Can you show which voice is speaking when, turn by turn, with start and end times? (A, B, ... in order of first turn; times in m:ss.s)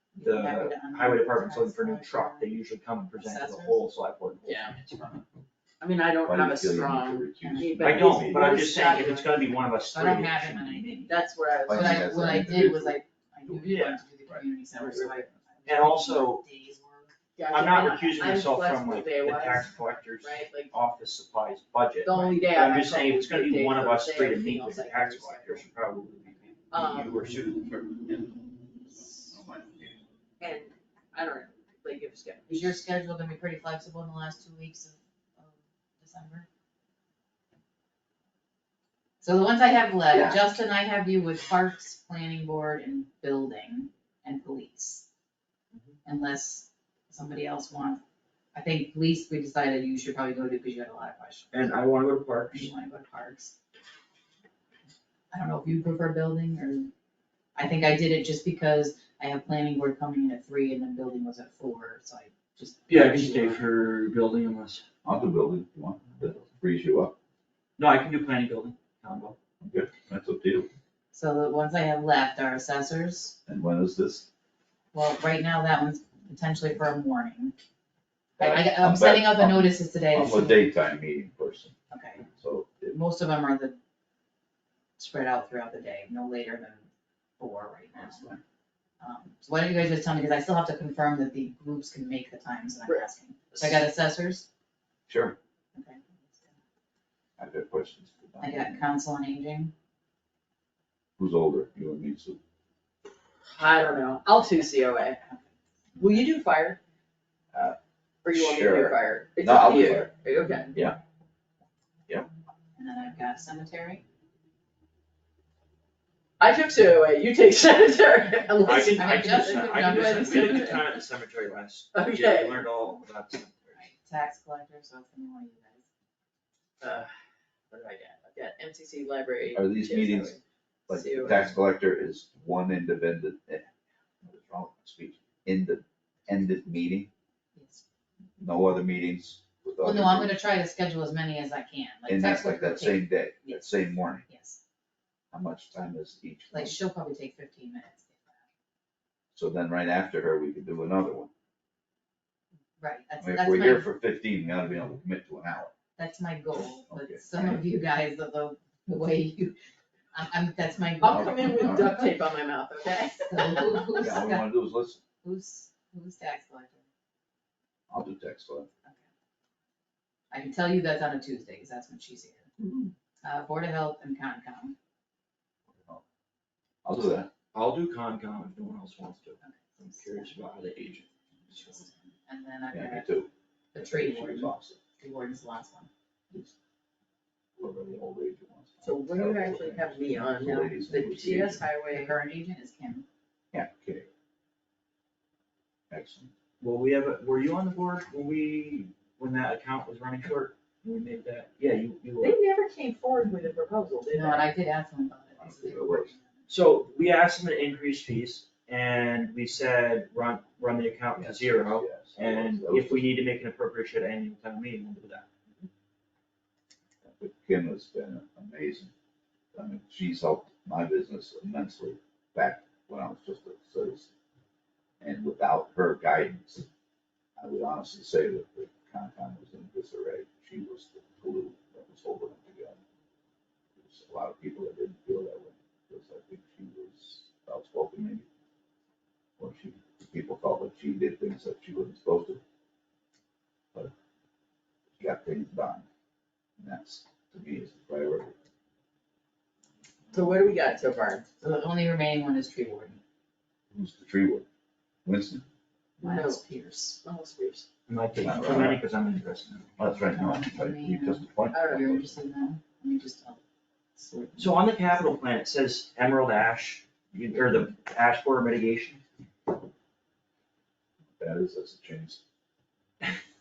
0:00.2-0:02.5 A
0:00.2-0:05.2 B
0:03.2-0:03.8 A
0:04.4-0:04.8 C
0:05.8-0:09.3 C
0:06.2-0:08.6 D
0:07.4-0:17.1 A
0:07.8-0:11.0 B
0:11.1-0:12.6 C
0:11.7-0:13.6 D
0:13.6-0:14.0 B
0:14.8-0:15.2 C
0:15.6-0:16.4 B
0:17.4-0:20.7 C
0:17.5-0:28.3 B
0:22.0-0:25.6 C
0:26.7-0:27.2 C
0:29.2-0:30.0 D
0:30.4-0:32.8 C
0:32.5-0:36.5 A
0:39.2-0:45.1 A
0:40.1-0:40.4 D
0:46.0-0:48.0 A
0:48.5-0:51.9 A
0:51.5-0:52.7 B
0:52.5-0:53.5 A
0:55.3-0:56.9 A
0:57.5-1:03.7 A
1:02.9-1:04.8 B
1:05.0-1:07.1 D
1:07.8-1:09.4 B
1:09.6-1:10.7 D
1:11.1-1:13.4 A
1:13.4-1:14.3 D
1:14.9-1:17.6 A
1:18.4-1:20.6 A
1:18.4-1:21.7 D
1:21.9-1:22.2 A
1:22.3-1:22.9 D
1:22.9-1:23.8 A
1:25.0-1:26.9 A
1:27.4-1:28.4 A
1:28.0-1:28.4 D
1:29.0-1:34.4 A
1:32.9-1:33.8 C
1:35.1-1:35.4 D
1:35.7-1:36.6 A
1:37.4-1:38.8 D
1:38.4-1:39.7 A
1:41.2-1:42.4 D
1:43.5-1:45.2 C
1:45.2-1:45.5 A
1:46.0-1:46.8 C
1:46.0-1:46.2 A
1:47.5-1:47.8 D
1:48.2-1:50.7 C
1:48.3-1:50.1 D
1:52.8-1:54.0 A
1:56.4-2:00.8 C
1:58.6-2:03.8 B
1:58.9-2:00.8 A
2:01.9-2:02.6 C
2:03.8-2:05.8 A
2:06.8-2:07.1 C
2:07.7-2:11.5 C
2:09.5-2:10.4 D
2:10.9-2:13.7 D
2:14.2-2:17.1 D
2:17.5-2:17.8 A
2:18.4-2:20.4 D
2:19.8-2:24.6 A
2:22.1-2:24.2 D
2:25.3-2:26.8 D
2:26.5-2:28.4 A
2:29.3-2:31.3 D
2:32.8-2:33.9 A
2:33.2-2:35.7 D
2:36.0-2:39.6 A
2:36.9-2:37.6 D
2:40.1-2:42.1 A
2:41.0-2:43.8 C
2:41.0-2:41.9 D
2:43.3-2:44.5 A
2:44.0-2:45.0 D
2:45.2-2:46.8 A
2:47.9-2:48.7 D
2:50.3-2:52.5 A
2:53.2-2:54.7 A
2:55.7-2:56.0 D
2:56.8-2:57.3 D
2:57.5-3:01.1 B
2:59.4-3:00.3 A
3:01.5-3:03.1 A
3:02.7-3:04.8 D
3:03.7-3:05.9 A
3:07.6-3:11.6 D
3:08.8-3:12.1 C
3:11.9-3:13.0 A
3:13.5-3:14.1 D
3:15.9-3:16.3 D
3:16.6-3:22.4 B
3:22.2-3:24.5 C
3:24.1-3:26.3 A
3:25.4-3:26.1 D
3:26.5-3:35.3 B
3:31.2-3:33.0 D
3:37.0-3:38.9 D
3:39.5-3:44.1 D
3:45.0-3:46.7 D
3:47.4-3:52.8 D
3:53.8-3:58.2 D
3:59.4-4:02.4 D
4:05.0-4:05.8 D
4:06.6-4:08.3 D
4:10.1-4:11.2 C
4:11.4-4:13.0 A
4:13.7-4:14.4 D
4:15.0-4:15.4 D
4:16.0-4:16.4 C
4:16.0-4:17.0 A
4:17.0-4:17.6 C
4:17.9-4:19.7 B
4:18.2-4:18.8 D
4:19.8-4:22.2 D
4:20.1-4:23.4 A
4:21.5-4:21.9 C
4:24.0-4:25.1 A
4:24.4-4:29.0 B
4:31.2-4:32.2 D